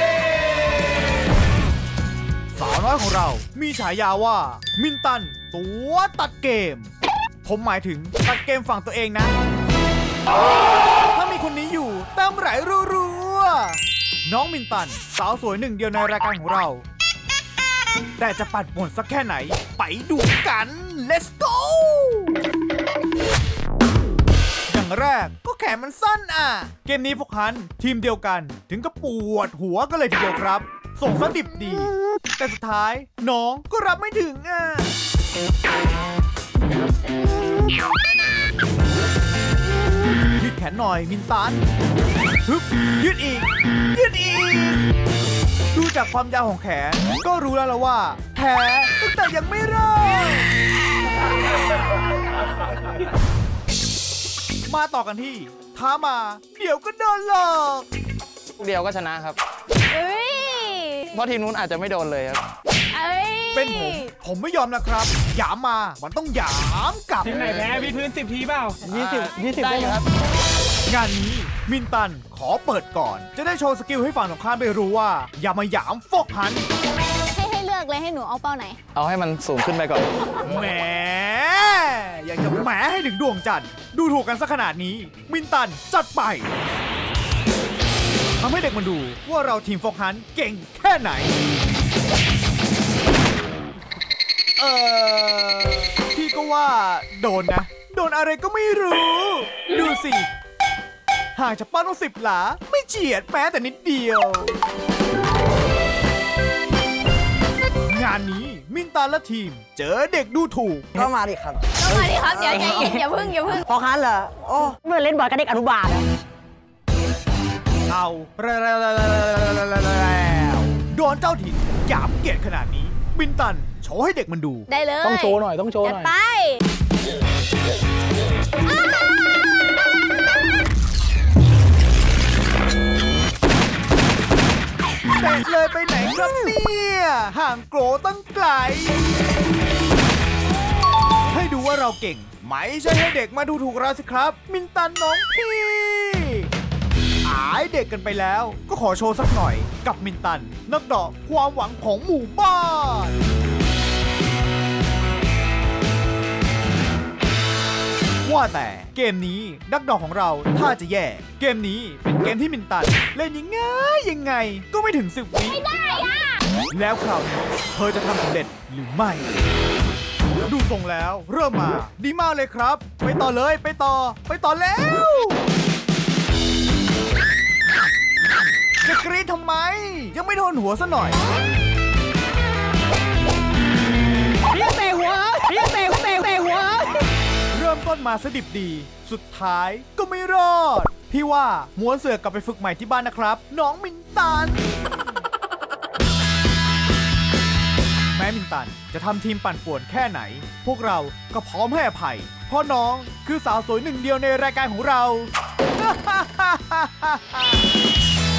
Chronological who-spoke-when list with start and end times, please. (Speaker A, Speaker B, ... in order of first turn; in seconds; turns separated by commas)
Speaker A: 2.5-6.9, Speaker A: 7.4-9.3, Speaker A: 11.1-16.8, Speaker A: 18.2-22.4, Speaker A: 24.7-34.9, Speaker A: 40.3-41.6, Speaker A: 42.4-44.8, Speaker A: 45.7-50.5, Speaker A: 54.7-57.9, Speaker B: 58.6-59.4, Speaker C: 59.9-61.1, Speaker B: 61.1-62.4, Speaker C: 62.9-64.1, Speaker A: 63.5-67.6, Speaker D: 67.3-68.8, Speaker B: 68.8-70.1, Speaker E: 68.9-70.0, Speaker A: 70.8-76.6, Speaker C: 77.3-78.8, Speaker B: 78.9-80.1, Speaker A: 80.4-86.5, Speaker A: 88.4-91.4, Speaker A: 94.6-100.3, Speaker A: 101.3-104.6, Speaker A: 107.8-111.1, Speaker E: 110.9-112.8, Speaker C: 111.8-113.7, Speaker E: 113.5-116.1, Speaker A: 117.9-124.7, Speaker C: 124.7-126.6, Speaker E: 125.0-126.1, Speaker A: 135.1-139.1, Speaker A: 141.3-146.5, Speaker A: 147.2-153.2, Speaker A: 158.2-165.8, Speaker C: 165.6-166.4, Speaker A: 166.7-169.4, Speaker A: 170.4-175.4, Speaker A: 178.8-181.2, Speaker D: 184.5-186.9, Speaker A: 187.5-194.9, Speaker A: 198.1-207.6